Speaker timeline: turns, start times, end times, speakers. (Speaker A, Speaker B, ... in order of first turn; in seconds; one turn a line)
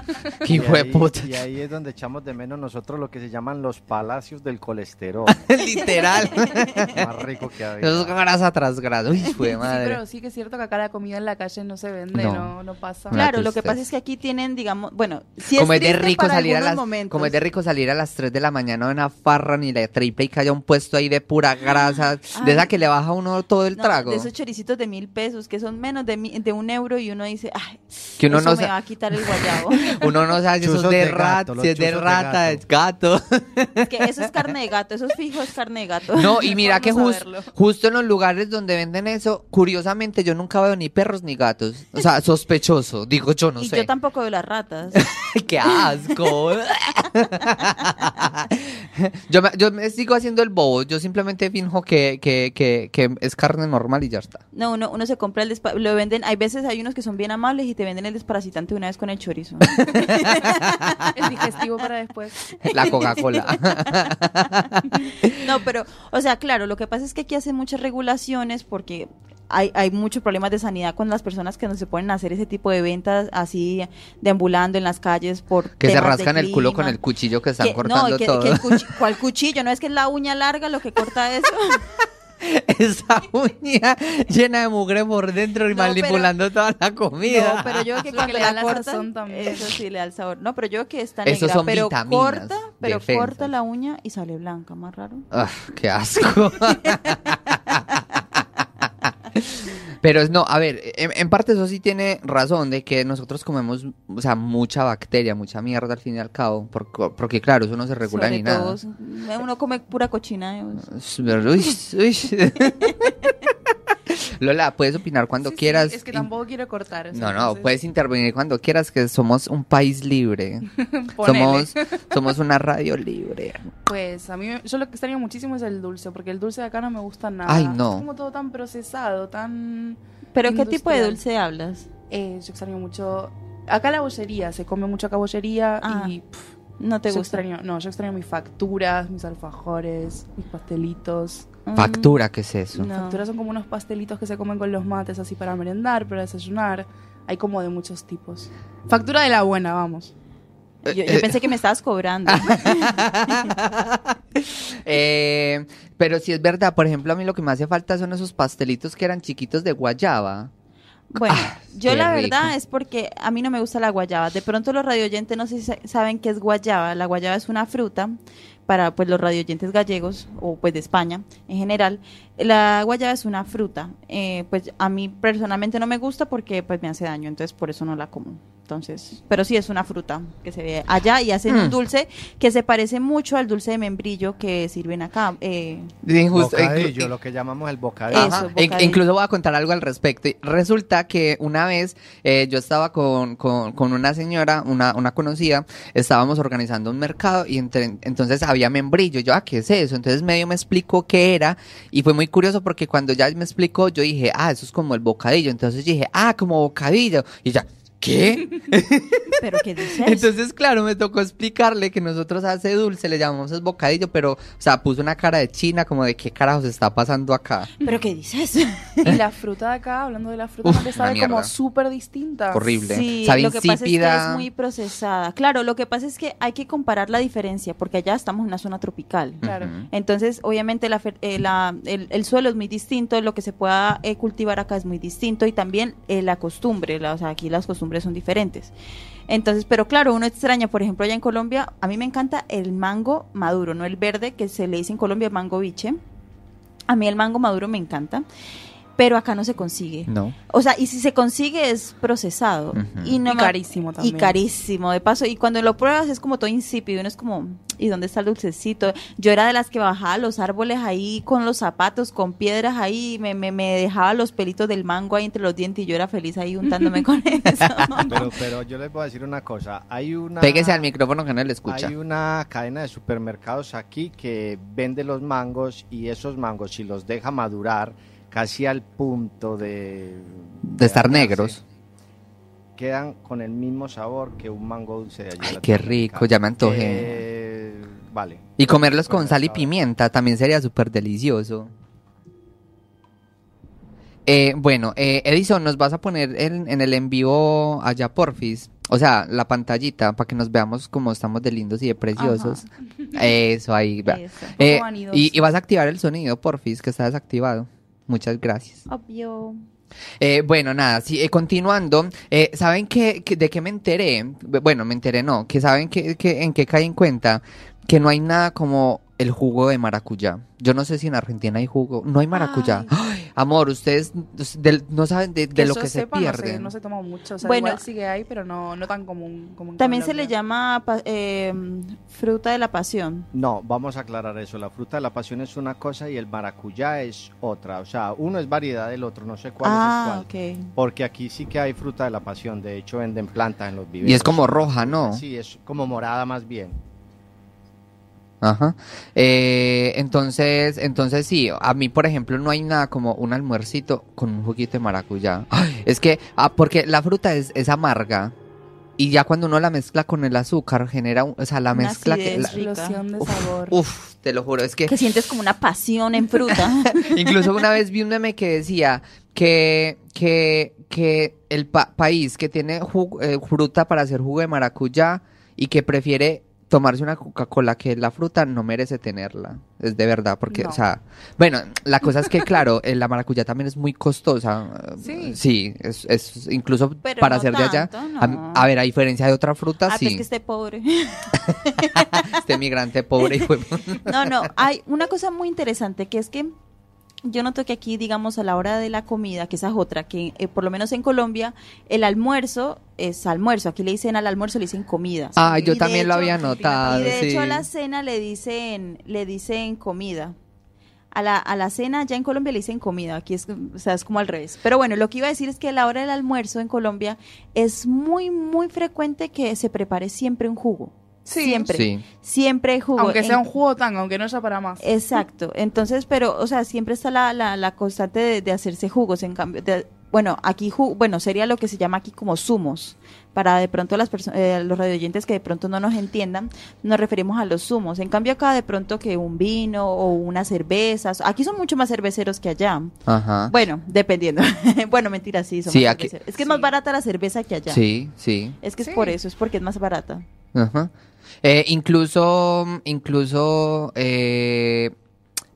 Speaker A: 0.3-1.4
Speaker B: 0.5-5.5
Speaker A: 5.3-7.1
Speaker C: 6.4-6.7
Speaker B: 6.5-8.2
Speaker A: 7.8-10.0
Speaker D: 9.4-13.2
Speaker A: 12.1-12.5
Speaker A: 13.1-13.8
Speaker C: 13.1-17.4
Speaker A: 15.5-24.3
Speaker C: 22.3-22.7
Speaker C: 23.8-30.1
Speaker A: 28.2-34.3
Speaker B: 30.6-32.6
Speaker C: 33.8-36.5
Speaker A: 36.1-43.9
Speaker D: 36.4-37.5
Speaker C: 43.6-45.1
Speaker A: 44.9-54.4
Speaker C: 54.5-61.2
Speaker A: 59.7-61.1
Speaker D: 61.1-62.7
Speaker C: 62.6-63.9
Speaker A: 62.6-65.4
Speaker C: 65.0-77.0
Speaker A: 75.8-78.9
Speaker C: 77.6-81.9
Speaker A: 82.4-88.0
Speaker C: 85.7-86.3
Speaker C: 87.2-95.2
Speaker D: 88.1-89.8
Speaker A: 91.2-93.5
Speaker A: 95.3-108.8
Speaker C: 108.0-110.9
Speaker A: 110.9-113.1
Speaker C: 112.7-113.1
Speaker A: 114.0-116.3
Speaker D: 115.4-117.7
Speaker A: 117.1-120.7
Speaker D: 120.8-122.2
Speaker A: 121.2-123.7
Speaker D: 123.8-131.2
Speaker A: 127.5-128.1
Speaker C: 130.3-131.9
Speaker D: 132.1-136.5
Speaker C: 135.8-136.1
Speaker C: 136.8-137.4
Speaker D: 137.1-141.5
Speaker C: 141.7-142.2
Speaker A: 141.8-142.9
Speaker C: 142.7-143.2
Speaker D: 142.9-150.1
Speaker C: 150.8-153.5
Speaker A: 150.8-151.4
Speaker A: 152.3-160.5
Speaker C: 161.1-168.2
Speaker A: 161.2-162.5
Speaker C: 168.7-185.9
Speaker A: 181.5-181.7
Speaker A: 186.0-187.1
Speaker B: 186.3-188.5
Speaker C: 188.1-189.0
Speaker A: 188.1-217.7
Speaker C: 209.4-210.3
Speaker C: 217.8-219.1
Speaker D: 219.0-222.7
Speaker A: 220.6-221.5
Speaker A: 222.5-224.5
Speaker C: 222.8-238.7
Speaker A: 229.4-229.9
Speaker D: 229.4-229.7
Speaker C: 239.3-246.0
Speaker C: 246.9-248.2
Speaker C: 249.0-268.3
Speaker A: 250.1-250.3
Speaker A: 252.7-253.2
Speaker D: 253.2-254.4
Speaker B: 268.1-270.9
Speaker A: 270.4-271.9
Speaker B: 271.7-281.6
Speaker A: 280.6-281.6
Speaker B: 282.8-289.7
Speaker A: 285.4-287.2
Speaker A: 288.6-291.7
Speaker A: 294.2-308.8
Speaker C: 302.2-302.7
Speaker C: 304.0-304.6
Speaker D: 304.5-305.5
Speaker C: 308.9-309.6
Speaker A: 310.2-326.7
Speaker D: 322.4-322.9
Speaker D: 325.5-330.3
Speaker C: 327.4-327.8
Speaker C: 329.8-333.3
Speaker B: 333.3-346.8
Speaker C: 339.6-340.7
Speaker A: 344.0-345.2
Speaker A: 348.4-358.3
Speaker A: 359.0-362.5
Speaker C: 361.7-363.0
Speaker D: 362.3-363.8
Speaker A: 363.2-365.0
Speaker C: 364.9-367.6
Speaker A: 366.4-390.2
Speaker D: 380.5-380.8
Speaker D: 385.0-385.4
Speaker C: 387.0-388.7
Speaker C: 389.9-392.5
Speaker A: 391.4-394.5
Speaker C: 394.0-396.5
Speaker C: 397.2-410.3
Speaker A: 405.4-407.7
Speaker D: 405.4-407.3
Speaker C: 411.1-423.4
Speaker D: 421.2-421.8
Speaker A: 421.7-422.0
Speaker D: 423.0-425.2
Speaker C: 424.8-442.9
Speaker A: 443.1-443.5
Speaker C: 443.5-447.8
Speaker A: 445.7-446.1
Speaker D: 446.4-446.7
Speaker A: 447.7-448.6
Speaker C: 448.6-450.2
Speaker D: 448.8-449.2
Speaker A: 450.5-450.9
Speaker A: 451.4-454.9